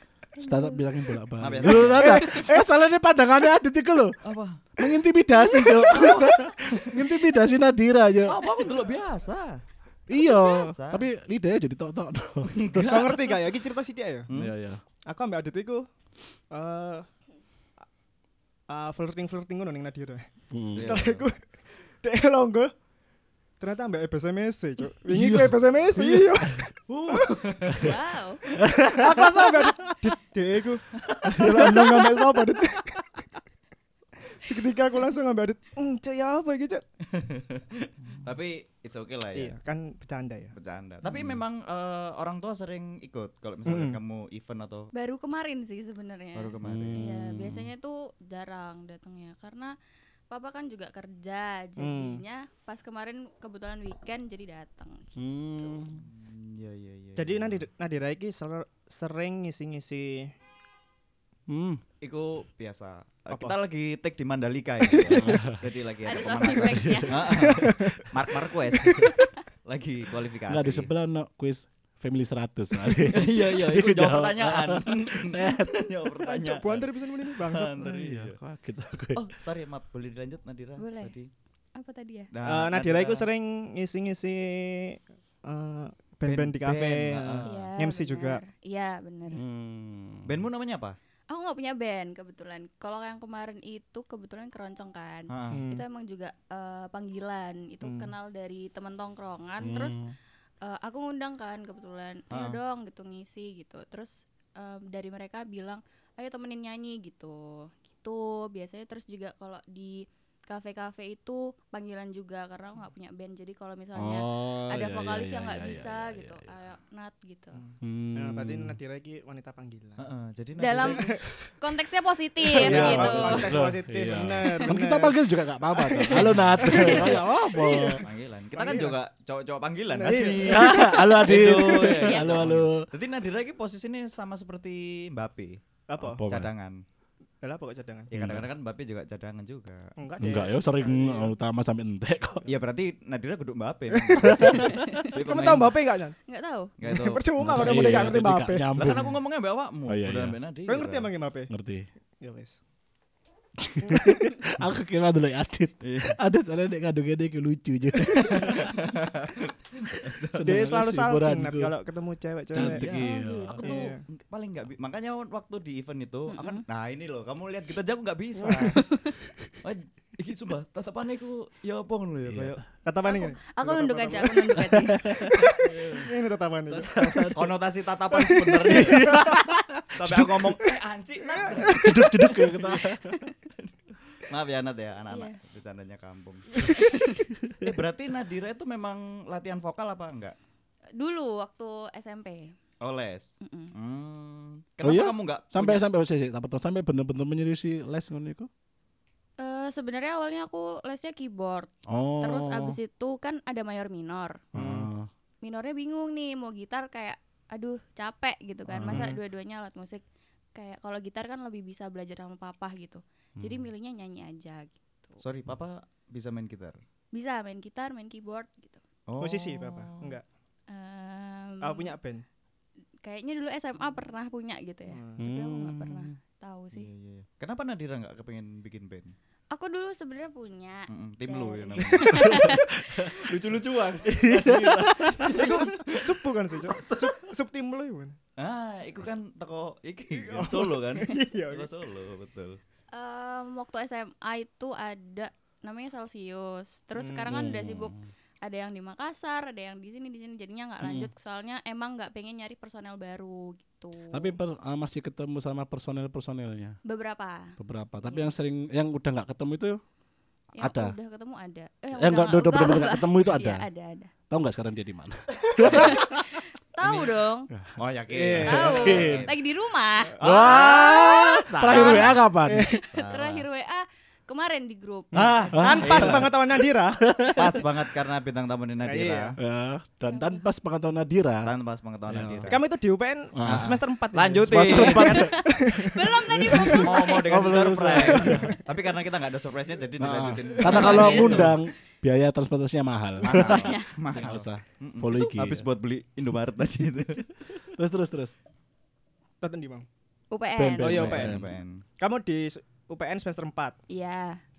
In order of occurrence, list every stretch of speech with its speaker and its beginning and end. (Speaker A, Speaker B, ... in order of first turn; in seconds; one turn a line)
Speaker A: 0.4-0.9
Speaker B: 0.4-4.2
Speaker C: 1.4-2.3
Speaker D: 1.9-2.6
Speaker C: 4.2-4.7
Speaker B: 4.8-8.5
Speaker A: 5.5-5.8
Speaker C: 5.9-7.1
Speaker C: 8.2-11.0
Speaker B: 10.1-12.9
Speaker C: 12.5-13.4
Speaker D: 12.9-14.3
Speaker B: 14.3-14.8
Speaker D: 15.1-15.9
Speaker D: 16.5-17.1
Speaker D: 18.7-21.4
Speaker B: 20.5-21.0
Speaker C: 20.7-21.3
Speaker D: 22.0-22.7
Speaker D: 23.6-27.4
Speaker B: 25.1-26.6
Speaker C: 26.9-28.0
Speaker A: 27.8-28.4
Speaker B: 28.6-29.4
Speaker D: 28.9-33.3
Speaker C: 31.0-31.6
Speaker B: 31.3-32.2
Speaker D: 34.3-36.8
Speaker C: 37.1-39.5
Speaker D: 39.3-40.5
Speaker C: 40.5-44.9
Speaker B: 41.0-41.4
Speaker D: 43.7-44.0
Speaker A: 44.9-49.7
Speaker C: 46.4-47.0
Speaker B: 46.6-47.7
Speaker A: 50.3-55.8
Speaker D: 51.8-52.2
Speaker B: 55.2-56.1
Speaker C: 56.0-57.6
Speaker D: 57.2-60.3
Speaker B: 61.5-61.8
Speaker C: 62.0-70.9
Speaker D: 63.3-63.6
Speaker D: 64.9-65.4
Speaker B: 65.1-65.6
Speaker A: 66.0-67.3
Speaker B: 66.5-67.7
Speaker D: 67.3-68.1
Speaker D: 68.7-69.1
Speaker B: 70.5-76.1
Speaker C: 73.1-78.4
Speaker D: 76.2-77.8
Speaker B: 77.8-79.3
Speaker C: 79.2-81.3
Speaker A: 80.8-81.1
Speaker A: 81.8-82.3
Speaker C: 82.3-83.3
Speaker D: 82.4-88.4
Speaker C: 86.3-87.7
Speaker A: 87.5-89.4
Speaker B: 89.3-90.5
Speaker C: 90.3-91.0
Speaker A: 91.3-100.0
Speaker C: 95.3-95.6
Speaker D: 95.5-95.8
Speaker D: 97.8-98.1
Speaker B: 99.6-100.2
Speaker A: 100.6-117.6
Speaker C: 102.3-102.6
Speaker B: 114.0-116.5
Speaker D: 117.6-120.1
Speaker B: 117.8-118.8
Speaker C: 120.0-121.2
Speaker A: 120.6-123.5
Speaker D: 120.8-121.2
Speaker D: 122.6-129.0
Speaker C: 122.6-123.6
Speaker B: 122.6-128.0
Speaker A: 126.6-127.0
Speaker C: 126.9-127.1
Speaker C: 128.0-136.8
Speaker D: 129.9-131.2
Speaker B: 130.4-132.9
Speaker A: 131.9-132.4
Speaker D: 135.9-136.2
Speaker B: 136.0-136.5
Speaker D: 137.4-138.1
Speaker C: 138.1-139.9
Speaker B: 138.1-138.5
Speaker D: 140.0-141.3
Speaker B: 140.2-142.5
Speaker C: 142.4-145.8
Speaker D: 143.9-146.2
Speaker B: 144.2-144.7
Speaker A: 144.5-145.1
Speaker A: 146.3-146.7
Speaker C: 146.8-148.1
Speaker D: 146.8-148.7
Speaker B: 147.4-149.2
Speaker C: 148.8-151.1
Speaker B: 149.9-150.4
Speaker D: 150.7-151.5
Speaker B: 151.5-151.8
Speaker D: 152.2-152.6
Speaker B: 153.6-158.7
Speaker C: 155.8-156.2
Speaker C: 158.1-160.7
Speaker B: 160.4-161.7
Speaker D: 160.4-162.8
Speaker B: 162.5-163.6
Speaker C: 162.5-163.0
Speaker A: 162.9-163.8
Speaker C: 163.6-168.8
Speaker D: 163.6-164.0
Speaker A: 166.3-166.6
Speaker D: 168.4-168.8
Speaker A: 168.9-169.1
Speaker C: 169.6-172.6
Speaker B: 172.3-172.6
Speaker D: 172.8-174.8
Speaker A: 173.0-175.1
Speaker B: 174.7-175.5
Speaker D: 175.3-177.3
Speaker C: 175.6-176.1
Speaker B: 176.7-177.5
Speaker C: 177.3-179.3
Speaker D: 178.3-179.4
Speaker B: 178.6-180.6
Speaker C: 179.9-182.0
Speaker D: 181.3-182.5
Speaker B: 181.6-183.2
Speaker C: 183.6-186.7
Speaker A: 185.1-185.4
Speaker A: 186.8-187.2
Speaker C: 187.6-190.3
Speaker A: 191.0-192.5
Speaker C: 192.8-195.8
Speaker A: 193.4-193.7
Speaker B: 194.8-198.5
Speaker A: 199.4-204.4
Speaker B: 201.9-202.8
Speaker B: 204.5-205.1
Speaker A: 205.4-210.0
Speaker B: 208.7-209.1
Speaker A: 210.5-215.2
Speaker C: 215.2-216.8
Speaker A: 217.1-218.8
Speaker C: 219.1-220.2
Speaker D: 219.2-220.2
Speaker A: 220.7-221.9
Speaker D: 221.6-222.2
Speaker A: 223.0-226.9
Speaker D: 224.9-225.2
Speaker B: 225.2-226.1
Speaker C: 226.7-229.1
Speaker A: 229.5-233.1
Speaker C: 230.9-236.1
Speaker B: 232.3-233.2
Speaker B: 234.0-235.5
Speaker D: 235.2-238.2
Speaker C: 236.7-237.2
Speaker C: 238.4-242.6
Speaker D: 240.1-241.7
Speaker A: 242.9-254.3
Speaker D: 247.0-247.3
Speaker B: 247.3-248.1
Speaker B: 250.8-251.1
Speaker B: 254.1-256.8
Speaker A: 256.8-258.3
Speaker B: 257.6-259.8
Speaker A: 260.6-264.1
Speaker B: 260.6-261.0
Speaker B: 262.0-263.7
Speaker B: 264.3-266.4
Speaker C: 265.6-265.9
Speaker A: 265.6-267.5
Speaker C: 266.8-267.2
Speaker B: 267.5-269.3
Speaker C: 267.8-269.4
Speaker D: 268.1-269.2
Speaker A: 268.4-272.2
Speaker C: 270.2-272.2
Speaker B: 270.2-272.7
Speaker D: 272.4-272.8
Speaker A: 272.7-275.1
Speaker C: 272.9-273.5
Speaker C: 275.1-276.3
Speaker D: 275.1-277.0
Speaker B: 275.5-277.6
Speaker C: 277.3-279.4
Speaker D: 278.8-279.4
Speaker B: 279.4-281.5
Speaker A: 280.1-280.4
Speaker C: 281.4-282.6
Speaker B: 282.1-282.5
Speaker D: 282.5-286.0
Speaker B: 283.4-283.7
Speaker C: 283.4-285.3
Speaker B: 284.5-288.6
Speaker A: 285.1-287.2
Speaker C: 286.6-291.6
Speaker D: 287.9-288.4
Speaker B: 290.0-295.6
Speaker D: 290.7-291.0
Speaker A: 290.7-291.6
Speaker C: 293.2-297.5
Speaker A: 293.3-293.9
Speaker B: 297.5-298.4
Speaker D: 299.4-299.9
Speaker A: 300.3-301.0
Speaker B: 300.6-301.5
Speaker D: 300.8-301.4
Speaker C: 300.9-301.8
Speaker D: 302.0-303.8
Speaker A: 303.9-304.4